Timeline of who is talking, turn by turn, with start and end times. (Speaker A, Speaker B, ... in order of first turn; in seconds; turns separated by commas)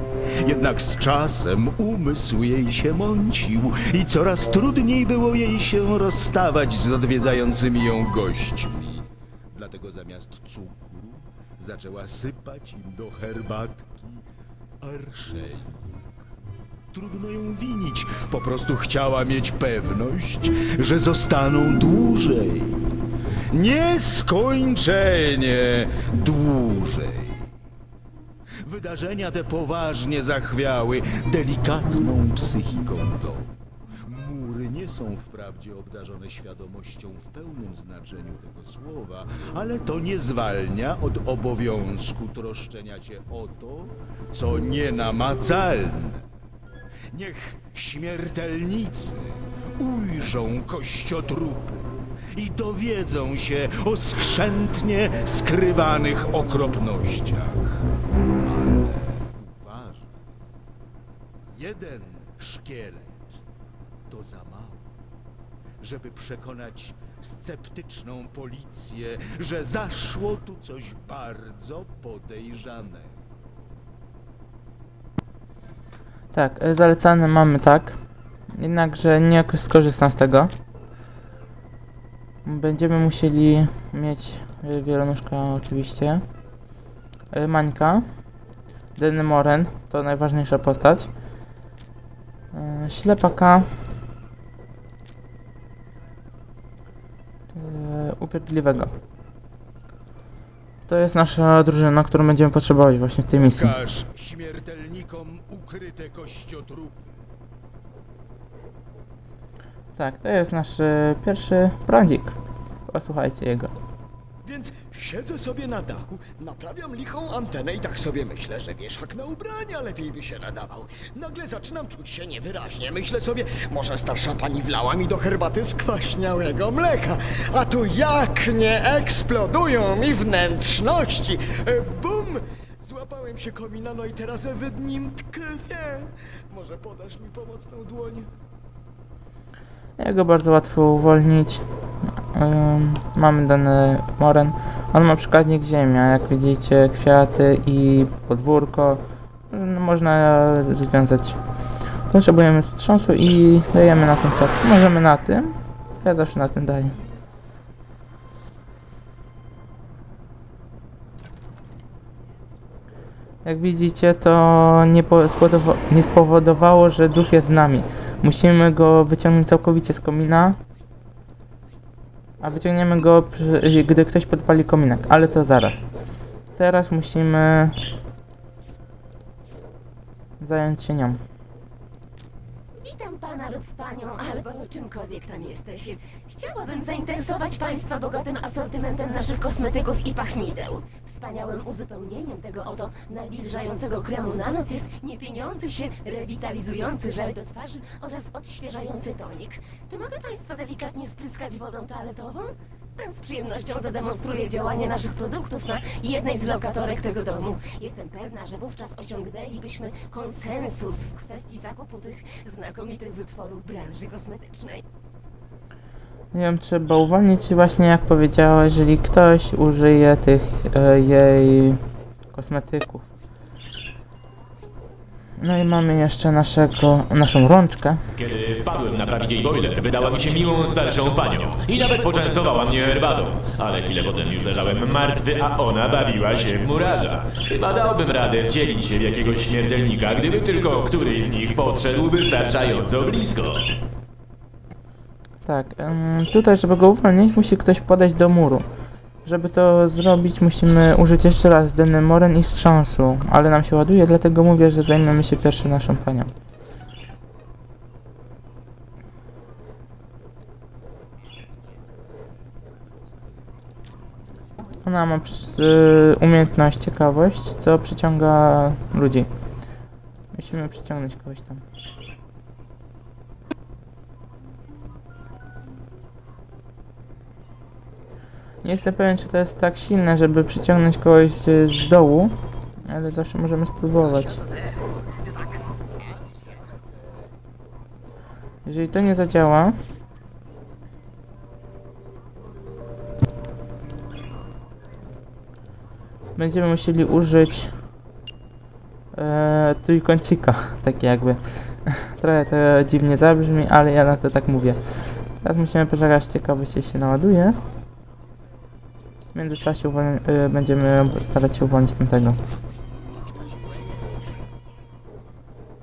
Speaker A: 0.4-14.2, Speaker A: 14.8-15.9, Speaker A: 16.9-23.0, Speaker A: 23.5-27.4, Speaker A: 28.6-46.3, Speaker A: 47.1-57.7, Speaker A: 58.4-60.1, Speaker A: 61.5-63.4, Speaker A: 64.1-64.9, Speaker A: 65.8-73.1, Speaker B: 76.3-78.0, Speaker B: 78.5-80.5, Speaker B: 82.5-86.2, Speaker B: 87.3-88.0, Speaker B: 89.0-91.1, Speaker B: 92.5-93.7, Speaker B: 97.5-99.0, Speaker B: 100.9-103.7, Speaker A: 103.4-107.2, Speaker B: 110.0-113.7, Speaker C: 114.4-138.3, Speaker B: 140.0-151.4, Speaker B: 152.1-157.0, Speaker B: 163.4-170.6, Speaker B: 172.4-175.8, Speaker B: 176.6-177.8, Speaker B: 180.4-181.2, Speaker D: 182.8-214.8, Speaker B: 216.3-223.1, Speaker B: 225.4-228.0, Speaker E: 228.2-243.8, Speaker B: 245.4-248.7, Speaker B: 249.2-256.3, Speaker B: 264.8-269.3, Speaker B: 270.3-271.6, Speaker B: 278.6-284.4, Speaker C: 284.4-285.6, Speaker C: 286.2-286.9, Speaker B: 288.6-289.8, Speaker B: 296.4-297.7, Speaker B: 299.1-304.8, Speaker B: 305.4-307.6, Speaker B: 309.3-312.4